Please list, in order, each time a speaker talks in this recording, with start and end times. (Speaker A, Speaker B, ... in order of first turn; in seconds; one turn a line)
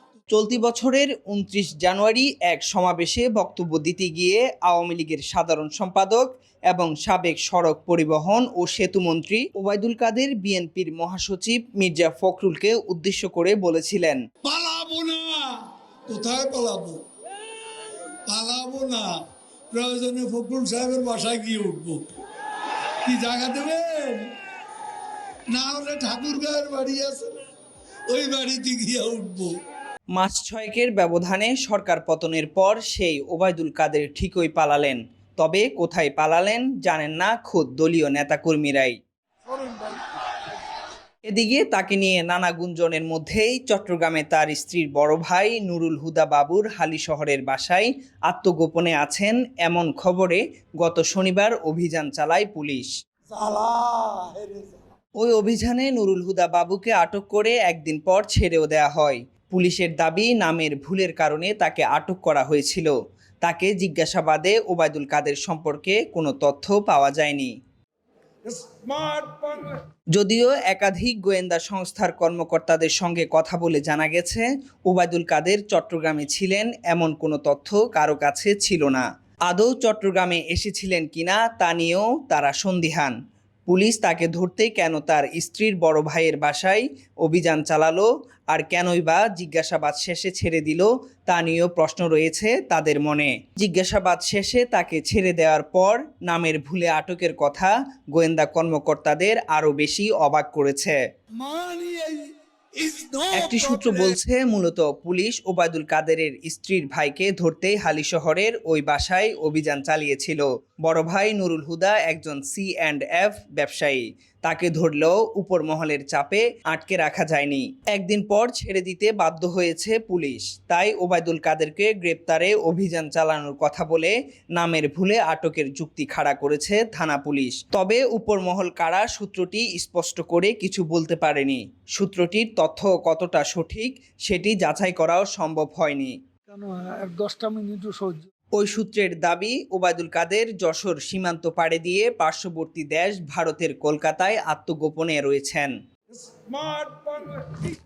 Speaker A: 0.3-14.2
Speaker B: 14.4-15.5
Speaker B: 16.1-17.0
Speaker B: 18.3-19.1
Speaker B: 19.7-22.0
Speaker B: 23.0-24.3
Speaker B: 25.5-27.4
Speaker B: 28.1-29.5
Speaker A: 30.1-39.0
Speaker C: 39.6-39.9
Speaker A: 41.3-52.9
Speaker B: 53.3-53.9
Speaker C: 53.9-54.5
Speaker A: 55.2-62.9
Speaker A: 63.4-67.5
Speaker C: 68.5-69.6
Speaker A: 70.1-83.1
Speaker A: 83.7-101.0
Speaker B: 101.4-102.2
Speaker B: 102.8-104.0
Speaker A: 103.3-136.1
Speaker C: 136.5-138.1
Speaker A: 138.6-145.7
Speaker C: 146.1-147.7